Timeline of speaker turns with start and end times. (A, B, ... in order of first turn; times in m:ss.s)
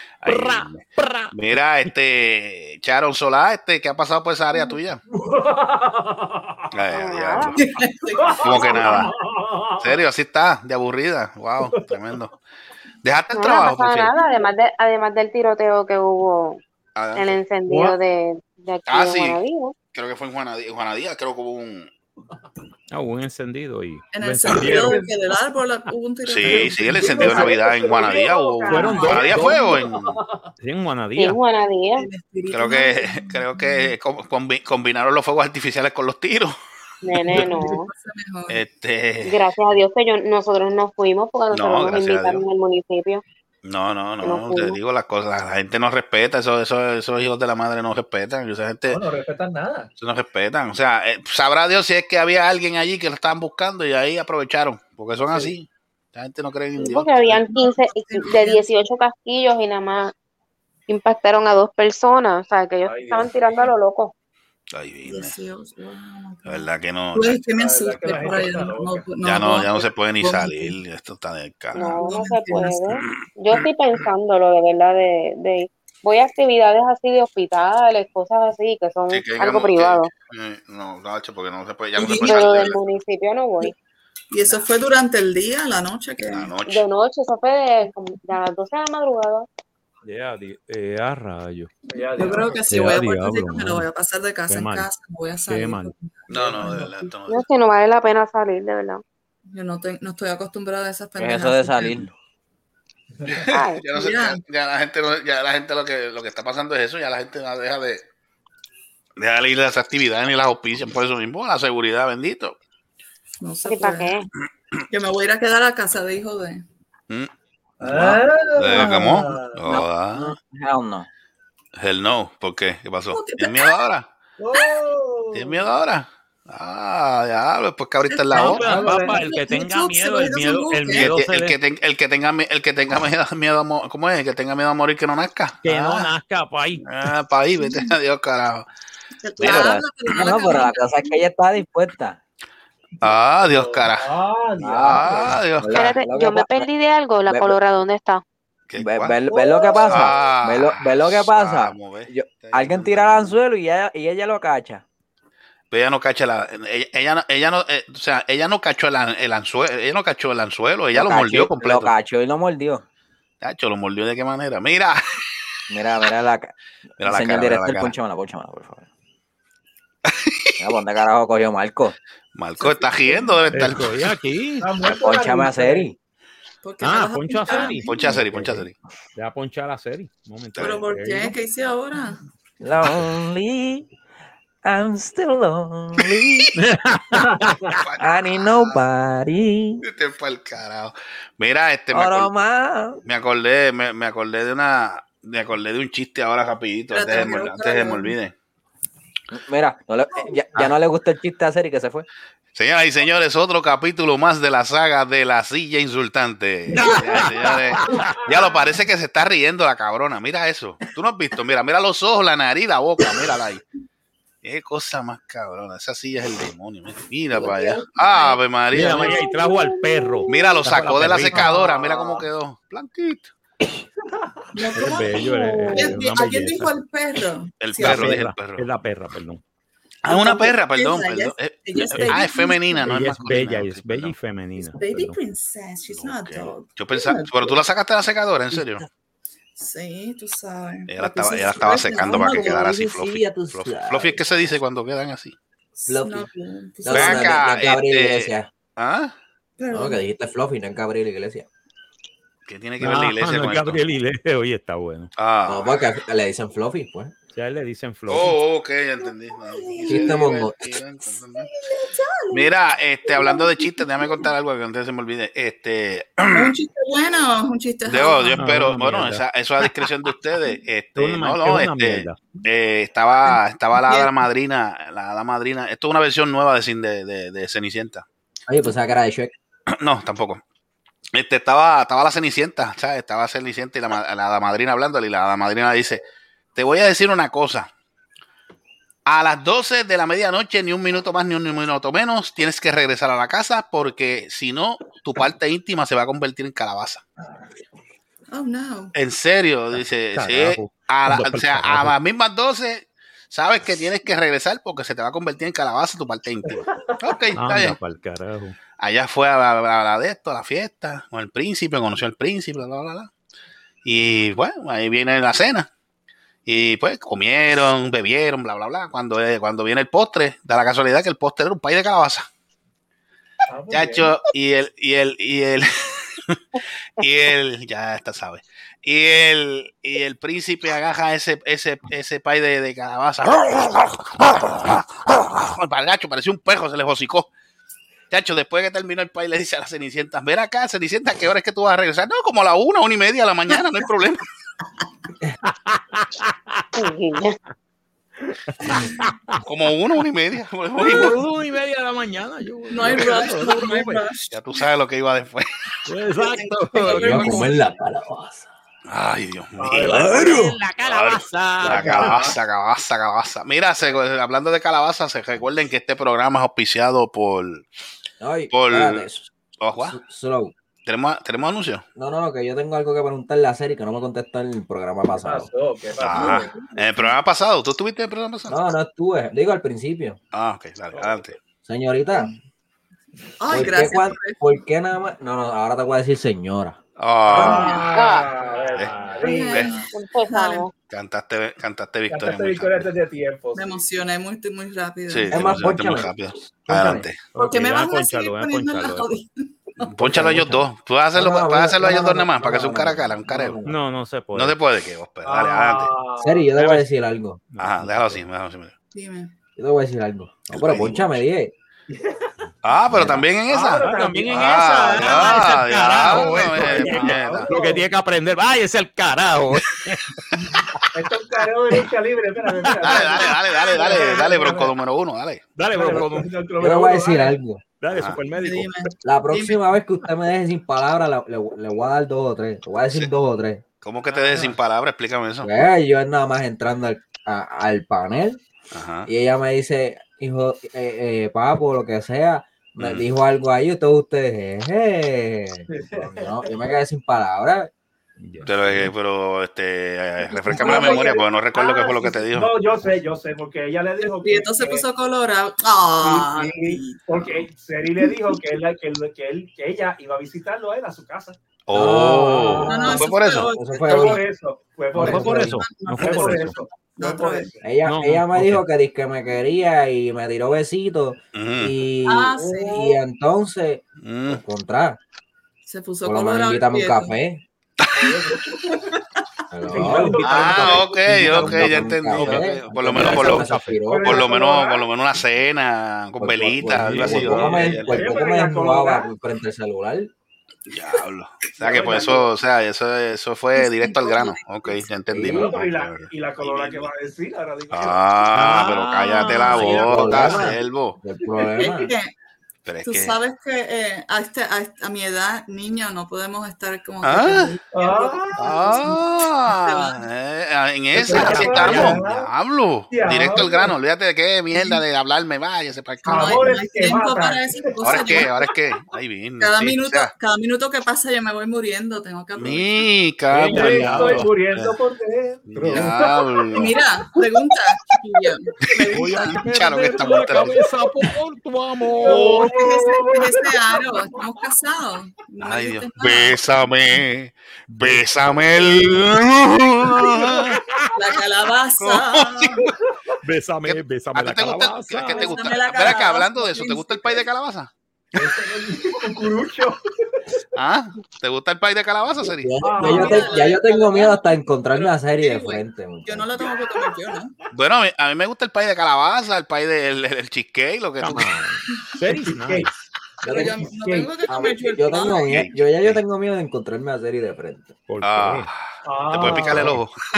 0:00.2-0:05.0 A
0:00.2-0:01.3 B
0:05.1-0:06.7 C
0:06.7-0:07.6 A
0:06.9-0:07.6 D
0:07.6-0:09.1 E
0:08.2-0:10.0 C
0:08.4-0:09.1 A
0:09.8-0:12.3 A
0:11.6-0:11.9 C
0:13.0-0:14.1 A
0:13.3-0:16.6 D
0:17.0-0:17.4 A
0:17.1-0:19.7 D
0:17.7-0:17.9 C
0:18.9-0:19.4 A
0:19.9-0:21.9 A
0:22.9-0:25.0 B
0:24.1-0:29.8 E
0:24.5-0:25.0 C
0:26.2-0:30.1 A
0:26.4-0:28.3 C
0:28.7-0:29.6 B
0:28.9-0:29.9 C
0:30.6-0:31.4 B
0:31.2-0:32.1 D
0:32.0-0:33.9 E
0:32.5-0:36.5 A
0:37.0-0:37.9 D
0:37.3-0:38.6 E
0:38.5-0:39.4 A
0:39.2-0:43.2 D
0:41.5-0:42.4 A
0:43.6-0:49.0 A
0:44.2-0:44.8 D
0:48.9-0:49.9 C
0:50.0-0:57.4 A
0:56.8-1:00.1 D
0:57.4-0:58.7 E
1:00.9-1:04.1 D
1:02.8-1:03.4 C
1:04.7-1:05.3 A
1:05.0-1:10.7 E
1:06.4-1:07.4 A
1:07.6-1:09.1 C
1:09.2-1:12.0 A
1:11.7-1:20.1 D
1:12.0-1:12.8 E
1:13.1-1:13.6 A
1:19.1-1:22.8 A
1:22.0-1:22.8 E
1:22.1-1:23.7 D
1:24.3-1:26.5 E
1:26.3-1:26.8 A
1:26.6-1:29.5 D
1:30.0-1:31.7 B
1:31.9-1:32.7 C
1:32.2-1:36.7 E
1:32.7-1:33.8 B
1:34.5-1:34.9 B
1:35.5-1:35.9 B
1:36.3-1:37.4 A
1:36.3-1:36.9 C
1:37.3-1:39.0 D
1:39.5-1:42.1 E
1:41.2-1:42.1 F
1:43.2-1:43.4 C
1:43.4-1:48.0 A
1:43.5-1:43.8 D
1:43.9-1:44.4 E
1:49.2-1:52.6 A
1:53.4-1:54.1 E
1:53.6-1:54.3 D
1:54.9-1:56.6 E
1:57.8-1:59.8 C
1:57.8-1:58.2 F
1:58.6-2:00.3 A
2:00.1-2:01.1 F
2:01.8-2:04.1 A
2:03.1-2:03.8 E
2:04.4-2:05.6 C
2:05.3-2:08.8 A
2:08.1-2:11.1 E
2:08.3-2:11.6 B
2:08.6-2:09.2 C
2:10.9-2:16.1 A
2:15.6-2:16.8 B
2:16.8-2:18.6 A
2:17.6-2:17.9 E
2:19.2-2:21.2 E
2:19.4-2:22.2 F
2:23.0-2:24.1 A
2:23.4-2:25.4 C
2:24.6-2:26.7 F
2:24.8-2:25.8 A
2:25.7-2:28.2 D
2:27.3-2:27.6 F
2:28.7-2:29.2 A
2:28.8-2:34.8 F
2:29.3-2:30.1 C
2:29.8-2:33.4 A
2:35.7-2:41.9 A
2:40.9-2:42.8 F
2:43.4-2:45.0 A
2:45.7-2:48.9 F
2:47.0-2:47.9 A
2:50.0-2:50.5 A
2:50.6-2:52.0 F
2:52.3-2:54.1 A
2:52.6-2:53.5 E
2:53.5-2:54.7 B
2:54.6-2:55.9 C
2:54.9-2:56.0 F
2:56.6-2:58.2 E
2:56.8-2:58.6 B
2:57.8-2:58.7 A
2:59.2-3:01.3 B
3:00.6-3:00.8 A
3:00.6-3:02.2 E
3:02.6-3:03.9 F
3:04.6-3:06.5 F
3:06.6-3:07.5 B
3:07.8-3:08.8 A
3:08.0-3:09.8 F
3:09.8-3:12.3 A
3:11.9-3:13.0 F
3:13.0-3:18.3 A
3:16.9-3:18.1 E
3:19.3-3:22.1 F
3:22.5-3:33.6 A
3:26.8-3:27.3 E
3:26.8-3:27.3 B
3:34.4-3:39.2 A
3:37.3-3:38.4 E
3:38.7-3:41.5 B
3:39.0-3:39.3 E
3:40.3-3:43.3 A
3:41.3-3:42.2 C
3:44.5-3:48.2 E
3:44.7-3:46.7 B
3:47.6-3:48.6 A
3:47.8-3:49.4 B
3:50.0-3:54.2 A
3:50.1-3:52.9 E
3:51.9-3:52.2 B
3:52.8-3:55.2 B
3:54.6-3:57.6 E
3:55.9-3:58.8 A
3:58.6-3:58.8 F
3:59.6-4:02.8 E
4:00.9-4:05.3 A
4:01.9-4:04.2 F
4:05.8-4:07.4 E
4:05.9-4:06.3 F
4:06.8-4:08.5 F
4:06.9-4:09.1 A
4:09.6-4:10.0 E
4:09.7-4:11.5 F
4:12.4-4:13.8 A
4:12.8-4:15.1 B
4:15.2-4:15.9 A
4:15.4-4:17.1 F
4:17.3-4:18.3 B
4:18.1-4:21.5 A
4:19.0-4:20.4 E
4:19.9-4:20.6 F
4:21.1-4:22.5 E
4:22.3-4:26.5 A
4:23.0-4:24.3 E
4:26.3-4:28.4 E
4:27.9-4:38.0 A
4:28.4-4:29.2 B
4:31.0-4:32.2 B
4:33.2-4:34.2 E
4:38.5-4:39.3 F
4:39.7-4:40.4 A
4:41.1-4:46.0 A
4:46.5-4:47.7 A
4:49.0-4:57.0 A
4:58.3-4:58.9 E
4:58.9-5:07.8 A
5:00.1-5:01.9 B
5:07.4-5:08.6 B
5:08.8-5:13.1 A
5:13.8-5:15.7 A
5:16.4-5:22.3 A
5:23.5-5:24.1 C
5:23.7-5:26.4 A
5:27.0-5:37.3 A
5:38.1-5:44.2 A
5:45.6-5:46.6 B
5:46.8-5:47.4 D
5:48.5-5:49.4 B
5:49.4-5:51.2 A
5:50.8-5:54.0 B
5:52.7-5:54.6 E
5:54.3-5:55.5 A
5:55.8-5:57.4 B
5:56.2-5:57.6 E
5:57.0-5:58.5 F
5:58.9-6:07.6 A
5:59.6-6:00.4 C
5:59.9-6:02.2 B
6:01.6-6:02.4 C
6:08.2-6:09.3 F
6:08.5-6:09.1 A
6:09.6-6:10.0 A
6:09.8-6:10.5 F
6:10.8-6:11.8 A
6:12.0-6:15.5 F
6:15.2-6:16.5 C
6:16.0-6:18.7 A
6:16.1-6:17.1 E
6:18.5-6:20.2 F
6:20.3-6:21.4 A
6:21.6-6:22.3 F
6:23.4-6:24.4 E
6:23.5-6:26.8 F
6:27.0-6:28.2 A
6:27.3-6:29.7 C
6:27.4-6:27.8 E
6:27.9-6:28.3 D
6:28.5-6:29.2 B
6:29.2-6:30.6 E
6:29.9-6:30.7 D
6:30.9-6:32.9 A
6:32.1-6:33.8 C
6:33.5-6:35.7 E
6:35.1-6:37.2 A
6:35.3-6:36.1 F
6:36.7-6:37.1 F
6:37.3-6:39.1 B
6:37.4-6:39.9 E
6:39.8-6:43.6 A
6:40.0-6:43.8 F
6:43.6-6:44.6 B
6:44.3-6:45.9 A
6:45.2-6:46.5 C
6:46.2-6:47.4 F
6:46.6-6:46.8 B
6:47.5-6:48.2 B
6:47.6-6:48.7 A
6:48.9-6:49.3 E
6:49.6-6:51.5 F
6:50.5-6:51.2 A
6:51.9-6:52.3 C
6:52.6-6:57.5 A
6:52.9-6:53.2 F
6:53.5-6:55.3 C
6:53.8-7:00.2 B
6:56.0-6:57.8 C
7:00.9-7:04.7 C
7:02.8-7:05.4 A
7:05.6-7:06.3 B
7:05.7-7:07.4 C
7:06.6-7:07.6 F
7:07.8-7:08.7 B
7:07.9-7:08.2 A
7:08.4-7:09.6 E
7:09.0-7:13.6 F
7:13.8-7:15.5 A
7:14.1-7:14.6 C
7:15.4-7:18.4 F
7:18.7-7:19.1 A
7:19.0-7:27.7 F
7:22.8-7:23.0 A
7:25.7-7:26.5 C
7:28.2-7:28.9 B
7:28.4-7:32.5 A
7:30.3-7:31.2 E
7:30.5-7:34.8 C
7:34.0-7:37.2 E
7:36.0-7:41.4 C
7:38.0-7:38.3 E
7:41.7-7:43.5 A
7:41.7-7:44.2 F
7:42.7-7:44.2 E
7:43.8-7:47.6 C
7:44.9-7:45.6 F
7:45.0-7:46.6 B
7:45.5-7:47.5 E
7:47.6-7:55.0 F
7:47.8-7:48.6 B
7:51.3-7:51.8 A
7:52.0-7:53.0 E
7:52.4-7:52.7 C
7:54.0-7:54.4 A
7:55.6-7:57.1 E
7:56.0-7:57.4 F
7:58.0-7:58.7 C
7:58.5-7:58.8 E
7:59.5-8:04.3 F
7:59.6-8:01.4 C
8:00.2-8:03.5 A
8:02.1-8:03.8 B
8:03.9-8:04.8 C
8:04.0-8:08.1 A
8:06.2-8:10.1 F
8:06.7-8:07.6 B
8:07.2-8:09.1 C
8:10.7-8:16.9 A
8:11.6-8:12.3 C
8:13.5-8:14.8 E
8:15.1-8:15.6 F
8:15.2-8:18.0 C
8:17.7-8:21.0 A
8:18.3-8:20.5 B
8:19.8-8:21.9 F
8:21.5-8:22.1 E
8:22.6-8:23.2 A
8:22.8-8:30.0 E
8:27.0-8:27.5 A
8:27.7-8:28.8 C
8:28.4-8:36.6 A
8:31.0-8:32.3 C
8:31.1-8:32.0 B
8:31.2-8:31.5 E
8:32.9-8:33.7 C
8:34.6-8:34.8 E
8:36.0-8:38.3 E
8:36.0-8:38.2 C
8:37.8-8:40.1 A
8:39.4-8:42.8 E
8:42.4-8:44.7 A
8:43.3-8:44.3 B
8:43.4-8:46.3 C
8:45.5-8:46.7 A
8:46.5-8:49.4 E
8:48.9-8:52.5 B
8:49.3-8:50.6 A
8:52.0-8:53.5 C
8:52.0-8:56.4 E
8:55.4-9:00.6 A
8:57.7-8:58.0 B
9:01.0-9:02.6 E
9:01.8-9:02.7 A
9:03.2-9:05.3 B
9:03.6-9:07.7 A
9:05.1-9:07.2 E
9:08.2-9:09.8 C
9:10.5-9:12.5 A
9:12.2-9:16.3 F
9:12.6-9:13.6 C
9:12.8-9:17.3 E
9:17.5-9:21.3 A
9:21.0-9:22.8 B
9:22.0-9:22.7 C
9:23.2-9:23.5 F
9:23.2-9:25.5 E
9:23.2-9:24.1 C
9:24.3-9:27.7 F
9:25.3-9:26.0 A
9:27.9-9:28.5 B
9:28.0-9:29.9 A
9:28.8-9:29.7 C